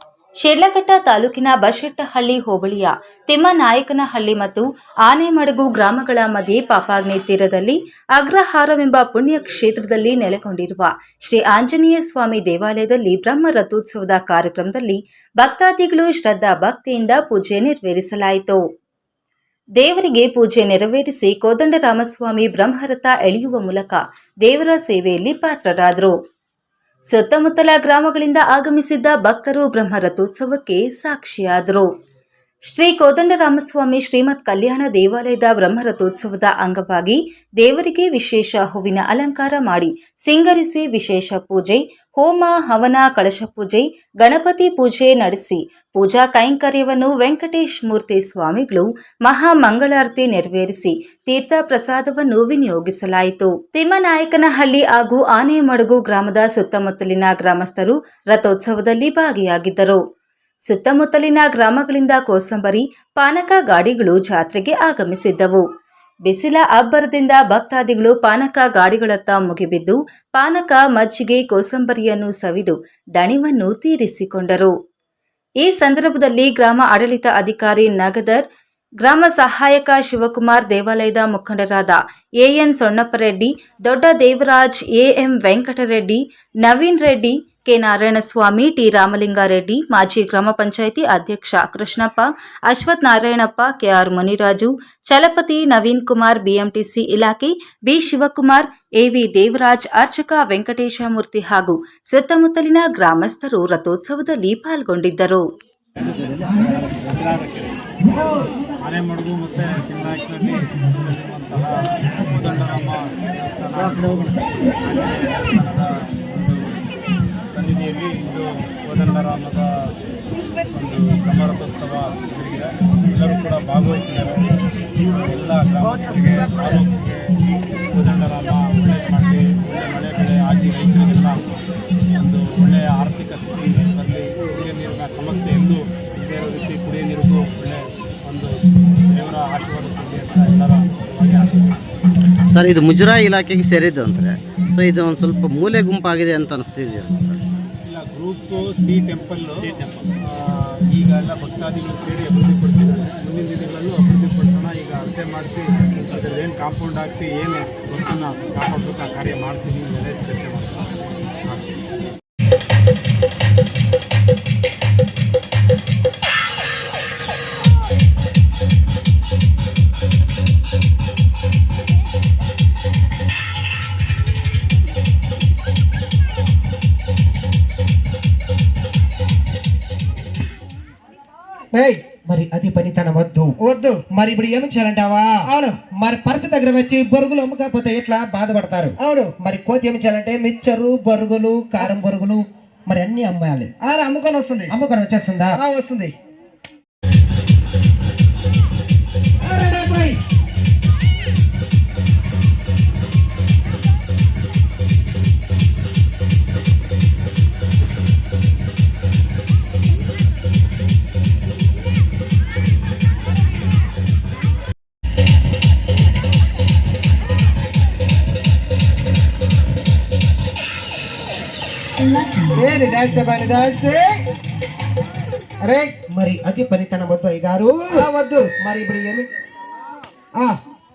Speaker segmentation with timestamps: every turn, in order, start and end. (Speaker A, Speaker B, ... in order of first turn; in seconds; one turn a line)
Speaker A: 0.4-18.6
Speaker A: 19.8-26.1
Speaker A: 27.1-31.9
Speaker A: 32.6-60.0
Speaker A: 60.7-65.6
Speaker A: 66.2-74.7
Speaker A: 75.6-78.4
Speaker A: 79.0-105.5
Speaker B: 106.0-107.8
Speaker B: 108.8-116.7
Speaker B: 117.5-119.7
Speaker B: 120.7-124.5
Speaker B: 125.2-127.3
Speaker B: 127.9-131.4
Speaker B: 132.2-141.8
Speaker C: 142.4-147.5
Speaker B: 147.8-161.7
Speaker D: 181.7-182.0
Speaker E: 182.2-183.6
Speaker D: 183.6-184.0
Speaker E: 184.1-193.7
Speaker D: 185.5-185.8
Speaker D: 189.0-189.3
Speaker D: 193.8-194.7
Speaker E: 194.7-195.6
Speaker D: 195.5-196.1
Speaker D: 199.4-200.2
Speaker D: 222.4-224.2
Speaker D: 225.6-226.0
Speaker E: 226.1-229.3
Speaker D: 227.9-228.5